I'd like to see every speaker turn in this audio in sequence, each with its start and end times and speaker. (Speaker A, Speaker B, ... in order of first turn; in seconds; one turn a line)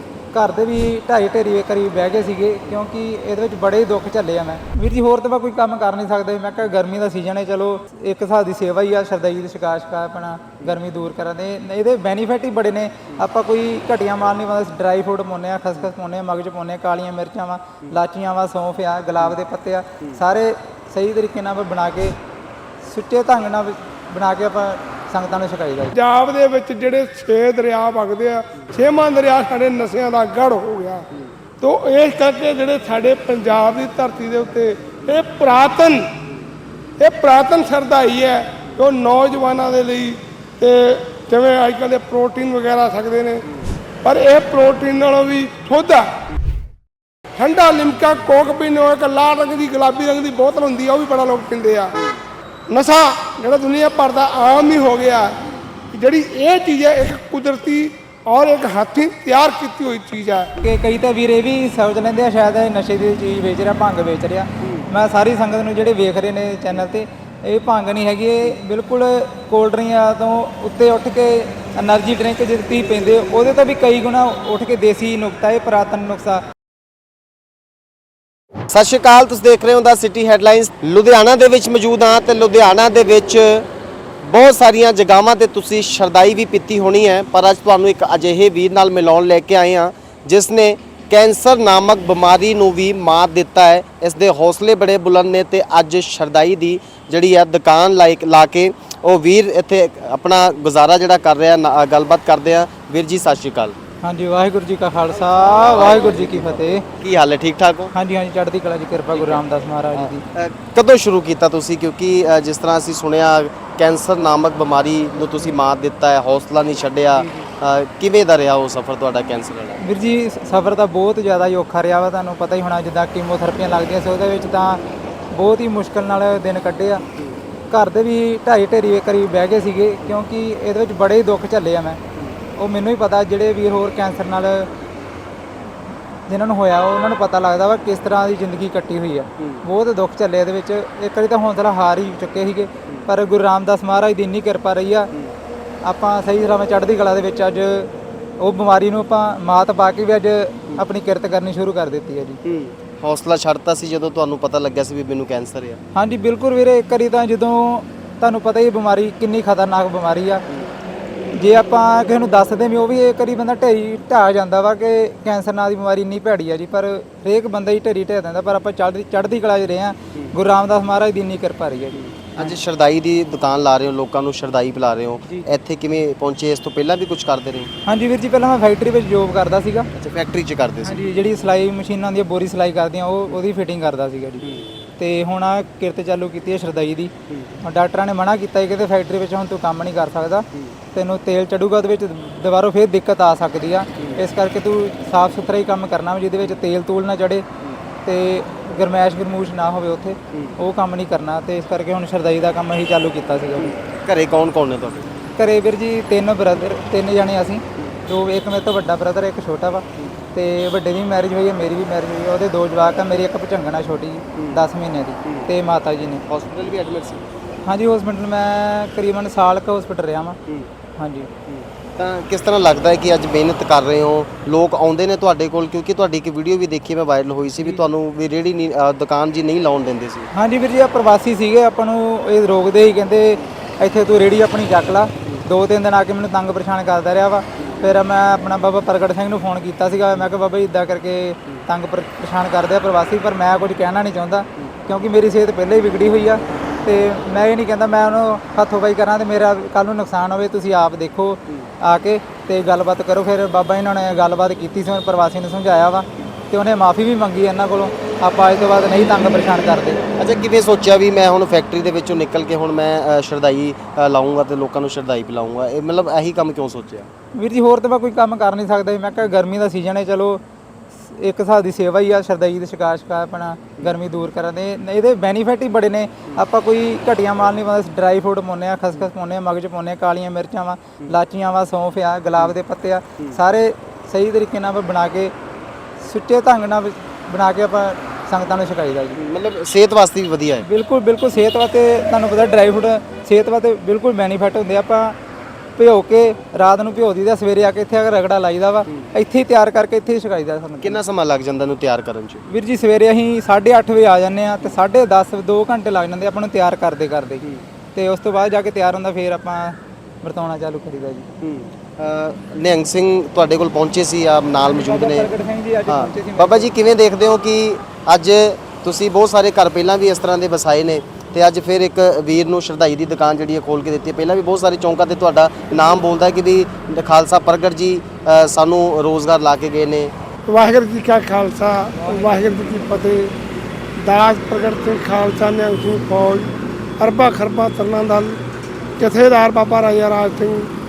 Speaker A: 0.3-22.1
Speaker A: 22.8-26.0
Speaker B: 25.9-31.1
Speaker B: 31.6-36.1
Speaker B: 37.0-43.4
Speaker B: 44.0-46.1
Speaker B: 47.4-52.0
Speaker B: 52.7-55.4
Speaker B: 55.9-60.5
Speaker A: 60.6-76.4
Speaker C: 78.7-83.7
Speaker C: 84.2-103.8
Speaker A: 104.0-106.8
Speaker C: 105.6-107.9
Speaker A: 107.9-110.2
Speaker C: 109.1-109.4
Speaker C: 109.9-119.8
Speaker A: 119.8-127.0
Speaker A: 127.7-132.0
Speaker A: 132.6-134.7
Speaker A: 136.3-145.1
Speaker A: 145.8-152.4
Speaker C: 152.4-155.8
Speaker A: 155.9-160.4
Speaker A: 161.3-172.5
Speaker C: 172.3-177.7
Speaker A: 177.8-179.9
Speaker C: 179.9-181.0
Speaker A: 180.8-184.4
Speaker A: 185.0-197.4
Speaker C: 187.3-187.5
Speaker A: 198.0-203.8
Speaker C: 203.8-205.0
Speaker A: 205.3-216.2
Speaker C: 216.2-217.2
Speaker A: 217.7-220.4
Speaker A: 221.0-221.3
Speaker C: 221.5-230.3
Speaker A: 230.3-260.0
Speaker C: 260.2-267.1
Speaker A: 267.3-270.4
Speaker A: 271.0-285.3
Speaker A: 286.0-289.2
Speaker C: 289.1-290.6
Speaker A: 290.6-295.1
Speaker A: 295.8-301.0
Speaker C: 300.8-302.4
Speaker A: 302.5-307.4
Speaker A: 307.9-311.3
Speaker C: 311.4-315.3
Speaker A: 314.6-316.7
Speaker C: 315.9-330.1
Speaker B: 330.5-333.3
Speaker B: 334.0-338.4
Speaker B: 339.0-340.7